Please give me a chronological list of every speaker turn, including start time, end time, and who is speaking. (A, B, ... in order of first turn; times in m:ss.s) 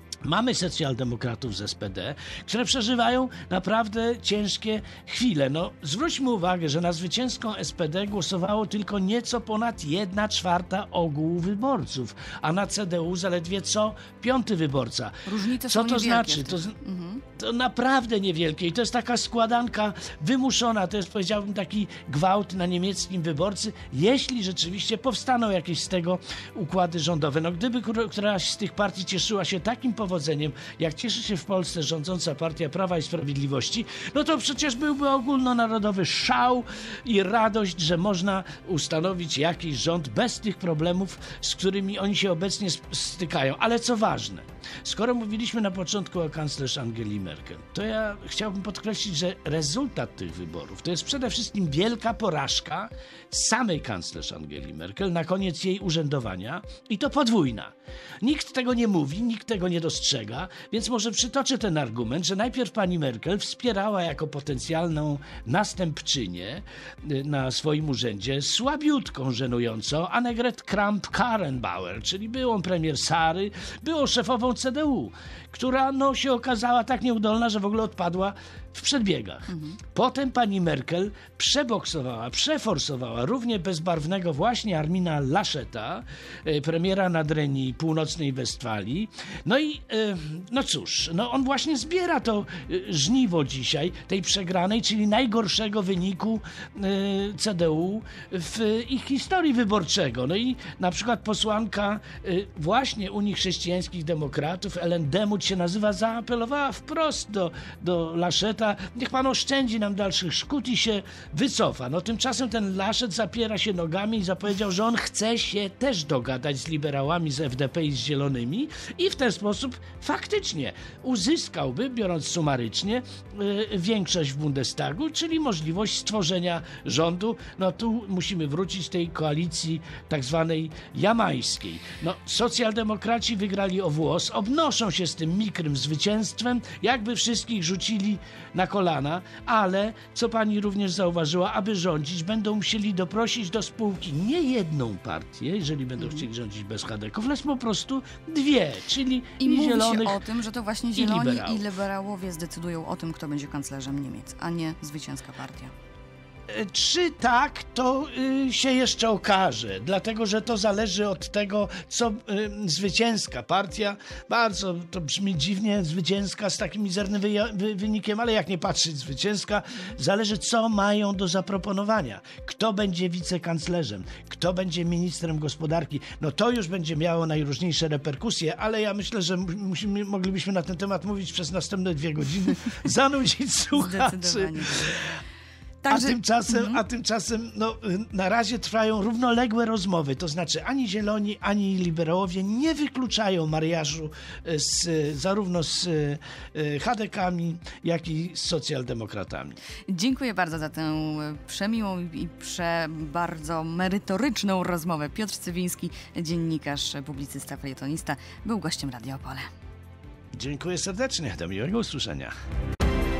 0:00.2-0:16.8 A
0:15.2-0:17.2 B
0:17.4-2:30.2 A
1:19.5-1:19.8 B
2:29.4-2:35.7 B
2:31.0-2:31.7 A
2:36.5-3:05.1 A
3:03.7-3:05.1 B
3:05.8-3:06.8 B
3:05.9-3:19.6 A
3:19.9-3:29.5 B
3:30.3-3:32.3 A